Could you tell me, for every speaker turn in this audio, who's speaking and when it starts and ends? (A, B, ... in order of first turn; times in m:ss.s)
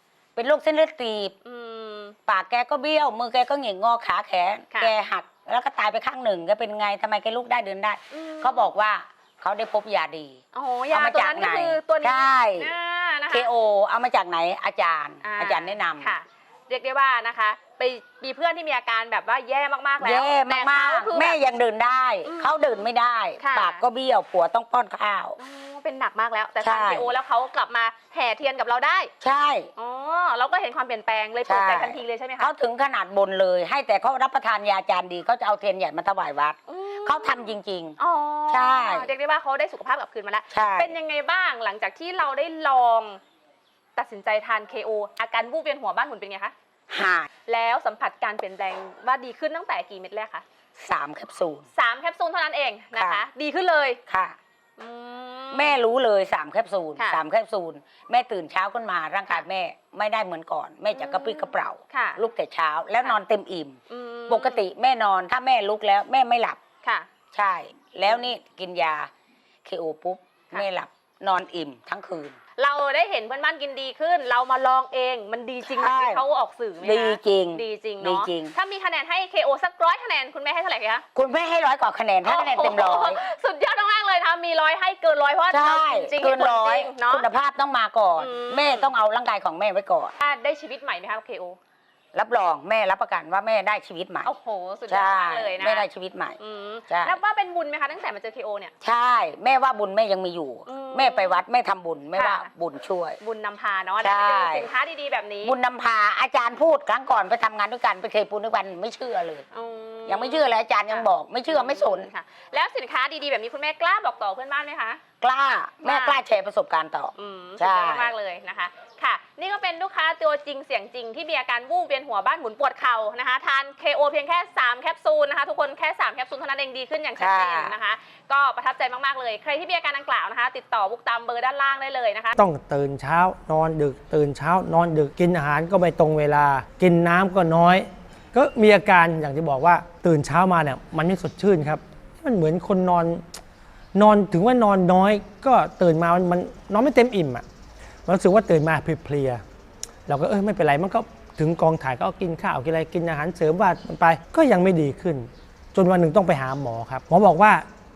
0:00.4-0:01.3 A
0:01.4-0:02.2 B
0:02.3-0:10.4 A
0:08.1-0:08.7 B
0:10.5-0:13.5 B
0:10.9-0:12.7 A
0:13.3-0:16.1 A
0:15.2-0:21.4 B
0:20.0-0:25.4 A
0:22.2-0:22.8 B
0:23.4-0:23.8 B
0:25.4-0:29.1 B
0:26.6-0:27.1 A
0:29.2-0:29.7 A
0:29.8-0:32.5 B
0:31.4-0:38.0 A
0:36.7-0:43.2 B
0:38.5-0:39.1 A
0:40.5-0:40.9 A
0:43.9-0:46.5 B
0:46.9-0:47.3 A
0:47.5-0:50.4 B
0:50.8-0:51.7 A
0:51.7-0:54.0 B
0:52.9-0:53.2 A
0:54.1-0:54.4 A
0:54.8-0:55.8 B
0:55.5-1:03.8 A
0:57.0-0:57.2 B
1:00.9-1:02.2 B
1:03.9-1:04.6 B
1:04.3-1:06.6 A
1:06.8-1:07.1 B
1:07.3-1:09.1 A
1:09.6-1:12.4 A
1:12.6-1:21.0 B
1:15.6-1:16.2 A
1:16.8-1:18.5 A
1:21.1-1:23.2 A
1:22.2-1:27.3 B
1:25.5-1:30.1 A
1:28.2-1:28.9 B
1:30.2-1:31.6 B
1:32.1-1:34.3 A
1:34.2-1:35.8 B
1:34.9-1:36.4 A
1:36.4-1:38.7 B
1:36.9-1:37.2 A
1:38.8-1:43.2 A
1:40.7-1:41.4 B
1:42.1-1:42.5 B
1:43.2-1:45.6 B
1:44.0-1:44.7 A
1:45.4-1:49.4 A
1:49.5-1:55.0 B
1:50.1-1:52.1 A
1:55.2-1:58.1 A
1:55.8-1:56.2 B
1:57.2-2:12.3 B
2:07.2-2:07.8 A
2:12.4-2:23.2 C
2:23.9-2:27.4 C
2:28.0-2:29.4 C
2:30.1-2:37.6 C